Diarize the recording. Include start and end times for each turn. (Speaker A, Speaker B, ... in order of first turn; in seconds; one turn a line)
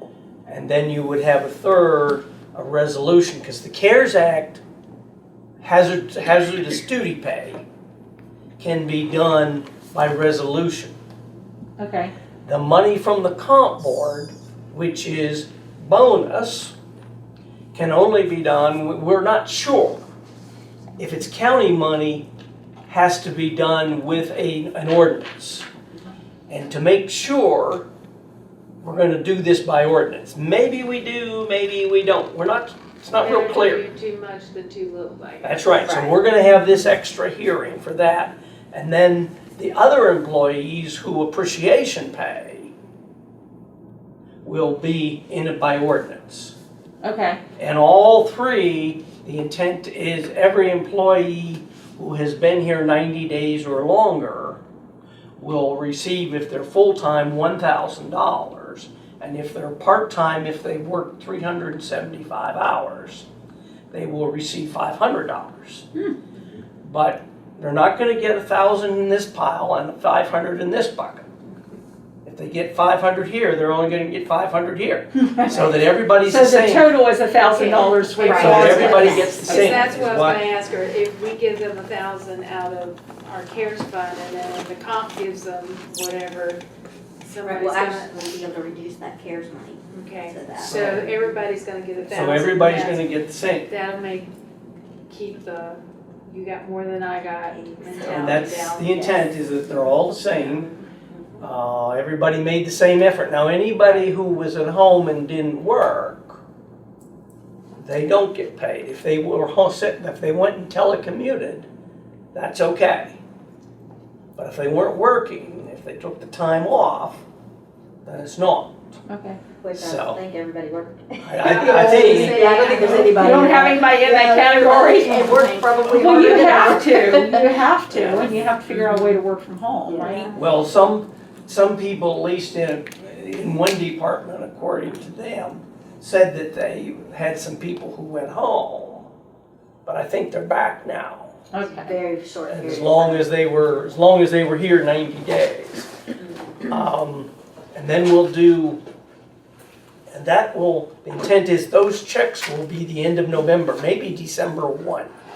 Speaker A: 0.5-4.6
Speaker A: 5.6-7.6
Speaker A: 8.6-10.9
Speaker B: 11.8-12.1
Speaker A: 12.4-16.7
Speaker A: 17.7-20.0
Speaker A: 21.0-22.3
Speaker A: 22.9-25.7
Speaker A: 26.5-27.9
Speaker A: 28.8-33.9
Speaker C: 33.1-35.9
Speaker A: 35.4-42.7
Speaker D: 35.8-36.1
Speaker A: 44.4-46.5
Speaker B: 47.0-47.4
Speaker A: 47.6-54.6
Speaker A: 55.4-63.3
Speaker A: 63.9-65.9
Speaker A: 66.8-71.3
Speaker A: 72.2-77.0
Speaker B: 75.2-79.8
Speaker C: 77.4-86.6
Speaker D: 78.2-80.0
Speaker A: 78.3-80.5
Speaker C: 87.2-88.2
Speaker D: 87.4-91.4
Speaker C: 89.9-93.1
Speaker A: 90.6-91.1
Speaker A: 92.1-93.7
Speaker C: 93.7-94.3
Speaker C: 95.1-99.3
Speaker D: 97.5-99.3
Speaker A: 98.0-100.7
Speaker D: 100.3-101.4
Speaker A: 101.4-106.4
Speaker A: 107.8-111.7
Speaker A: 112.3-113.2
Speaker A: 114.4-117.2
Speaker A: 118.0-118.8
Speaker B: 119.1-119.4
Speaker D: 119.6-127.6
Speaker A: 119.8-120.2
Speaker A: 121.2-123.0
Speaker C: 121.4-123.4
Speaker B: 121.9-130.3
Speaker A: 127.9-128.4
Speaker D: 128.7-129.2
Speaker D: 129.9-130.5
Speaker A: 130.3-139.1
Speaker A: 139.8-141.4
Speaker B: 141.5-141.9
Speaker D: 141.6-143.8
Speaker A: 142.5-145.9
Speaker D: 146.2-146.8
Speaker A: 146.6-148.8
Speaker A: 150.1-155.1